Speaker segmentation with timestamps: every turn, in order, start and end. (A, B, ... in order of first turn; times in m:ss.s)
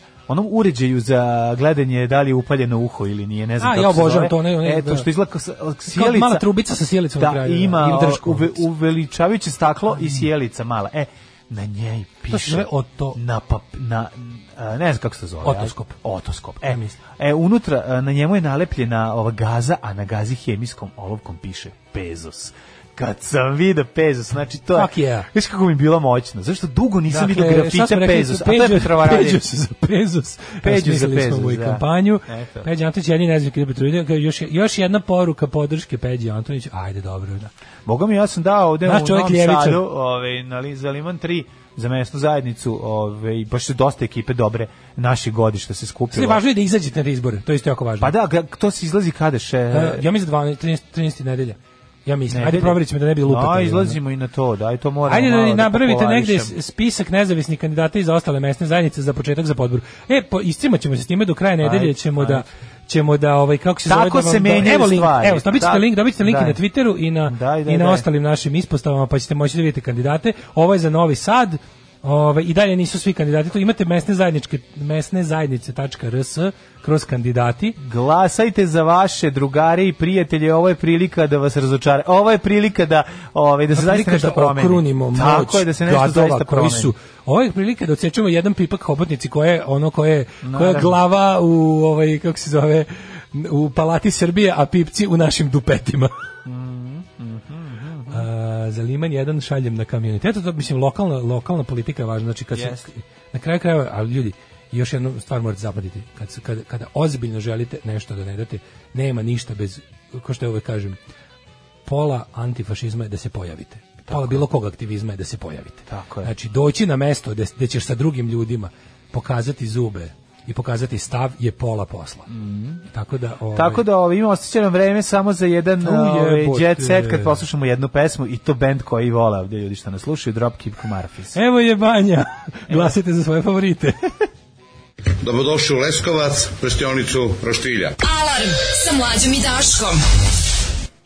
0:00.3-0:06.5 A
0:03.6-0:05.1 B
0:05.9-0:08.6 B
0:07.2-0:29.4 A
0:12.3-0:13.2 B
0:15.4-0:16.0 B
0:16.7-0:17.0 B
0:24.7-0:25.3 B
0:27.1-0:37.5 B
0:30.6-0:32.7 A
0:37.8-0:46.4 A
0:38.8-0:39.8 B
0:46.1-0:48.1 B
0:48.0-0:50.0 A
0:49.7-0:54.0 B
0:52.3-0:56.5 A
0:55.1-1:17.8 B
1:01.6-1:02.5 A
1:03.8-1:06.6 A
1:07.3-1:08.0 A
1:17.8-1:26.9 A
1:23.7-1:36.1 B
1:30.4-1:31.0 A
1:36.4-1:38.2 A
1:38.1-1:51.0 B
1:42.5-1:42.9 A
1:51.8-2:02.3 B
1:54.1-1:54.4 A
1:55.9-1:56.3 A
2:02.3-2:02.8 A
2:02.9-2:03.8 B
2:03.5-2:11.4 A
2:05.8-2:07.4 B
2:11.3-2:14.1 B
2:15.2-2:17.9 C
2:18.0-2:20.0 D